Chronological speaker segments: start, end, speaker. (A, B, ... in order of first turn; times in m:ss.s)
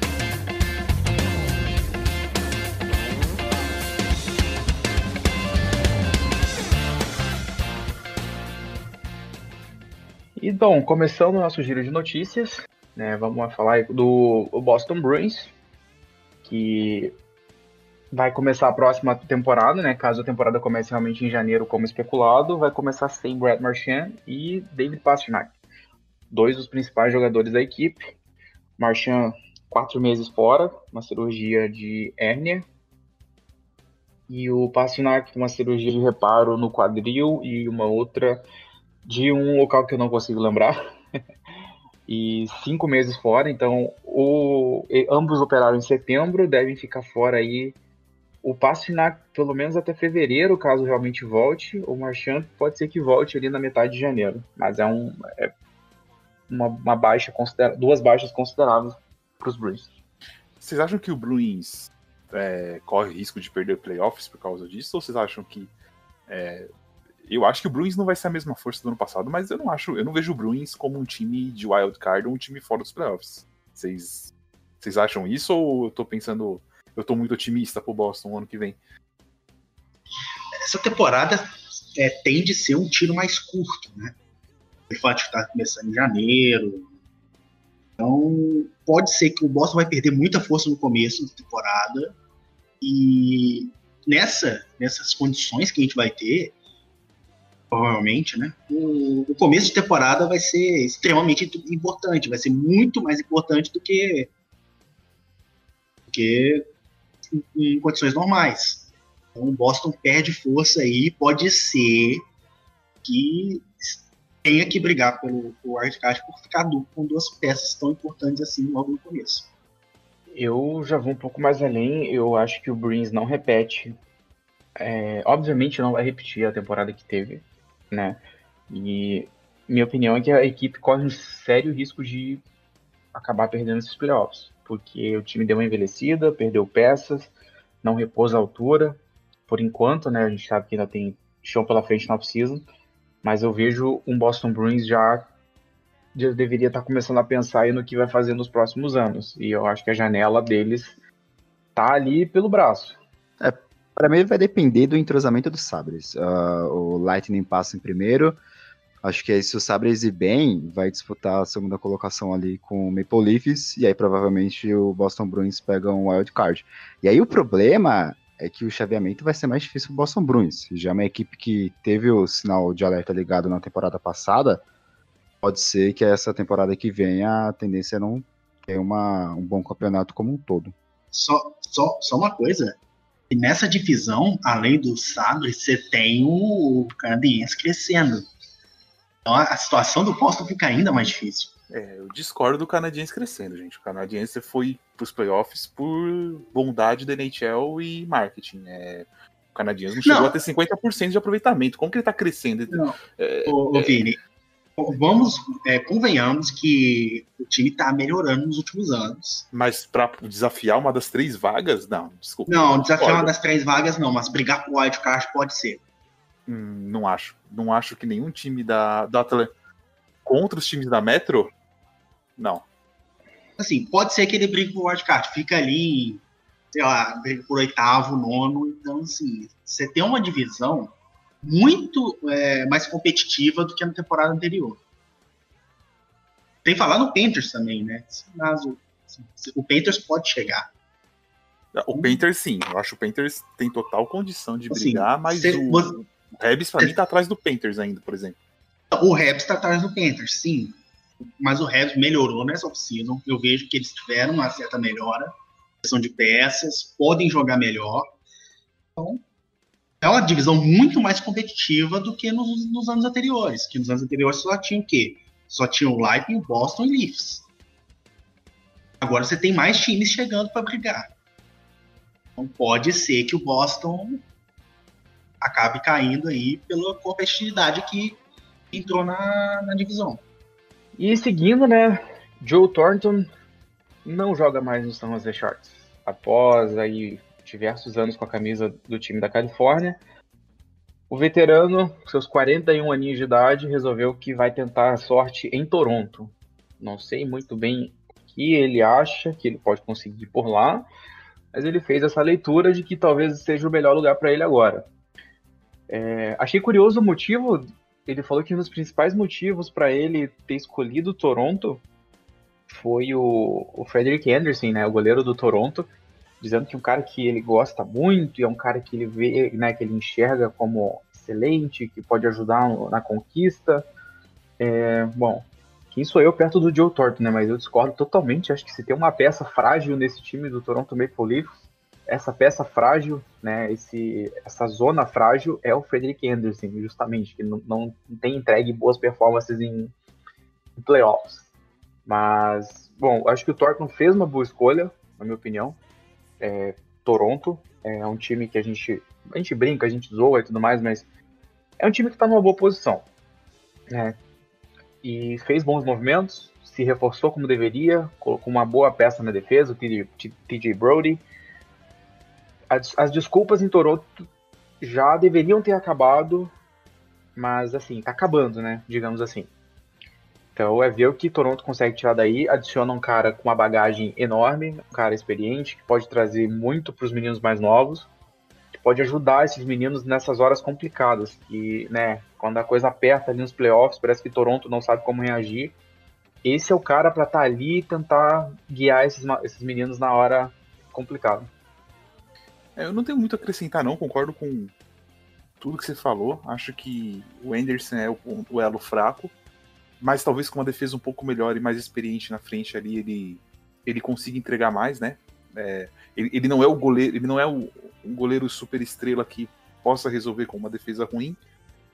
0:10.4-0:15.5 A
0:16.4-0:17.2 A
0:18.1-0:25.5 A
0:26.3-0:28.1 A
0:28.8-0:32.7 A
0:34.3-0:38.4 A
0:39.0-0:40.8 A
0:42.1-0:47.8 A
0:48.4-0:55.5 A
0:56.5-0:59.9 A
1:00.6-1:05.7 B
1:06.3-1:06.7 B
1:07.3-1:18.8 B
1:20.7-1:24.2 C
1:24.9-1:26.9 C
1:28.0-1:32.2 C
1:32.8-1:36.5 C
1:37.7-1:44.3 C
1:46.1-1:46.6 C
1:47.3-1:52.2 C
1:53.0-1:59.5 C
2:00.4-2:04.0 A
2:04.8-2:12.4 A
2:13.1-2:17.3 A
2:17.8-2:22.6 A
2:23.2-2:25.3 A
2:26.1-2:31.0 A
2:31.8-2:33.0 A
2:33.4-2:38.4 D
2:39.0-2:54.6 D
2:55.4-3:00.7 D
3:01.1-3:02.8 C
3:03.3-3:08.3 C
3:09.3-3:11.5 C
3:11.7-3:24.0 B
3:20.0-3:20.4 C
3:22.7-3:23.0 C
3:23.5-3:24.2 C
3:24.8-3:29.5 C
3:29.5-3:33.3 B
3:32.5-3:35.8 C
3:36.5-3:39.5 B
3:40.2-3:41.5 B
3:42.4-3:42.6 B
3:43.6-3:54.8 C
3:56.6-4:00.7 C
4:01.7-4:08.4 B
4:01.9-4:02.2 C
4:04.7-4:06.0 C
4:08.9-4:10.8 C
4:11.4-4:18.1 C
4:19.0-4:19.2 C
4:20.0-4:27.4 C
4:29.0-4:31.1 C
4:32.4-4:34.2 C
4:35.4-4:38.2 C
4:38.7-4:40.2 C
4:41.0-4:43.3 A
4:44.0-4:50.0 A
4:51.1-5:00.9 A
5:01.5-5:04.9 A
5:05.9-5:11.8 A
5:12.7-5:15.9 A
5:16.4-5:23.8 A
5:24.6-5:31.6 A
5:32.1-5:39.9 A
5:40.8-5:41.4 A
5:42.1-5:45.8 A
5:46.4-5:51.1 A
5:51.8-5:53.1 A
5:53.9-5:54.2 A
5:55.0-6:01.2 A
6:02.7-6:04.3 A
6:04.8-6:06.5 A
6:07.4-6:09.5 A
6:10.6-6:18.1 A
6:18.8-6:25.8 A
6:26.4-6:31.5 A
6:32.8-6:34.7 B
6:35.6-6:39.3 B
6:40.0-6:51.4 B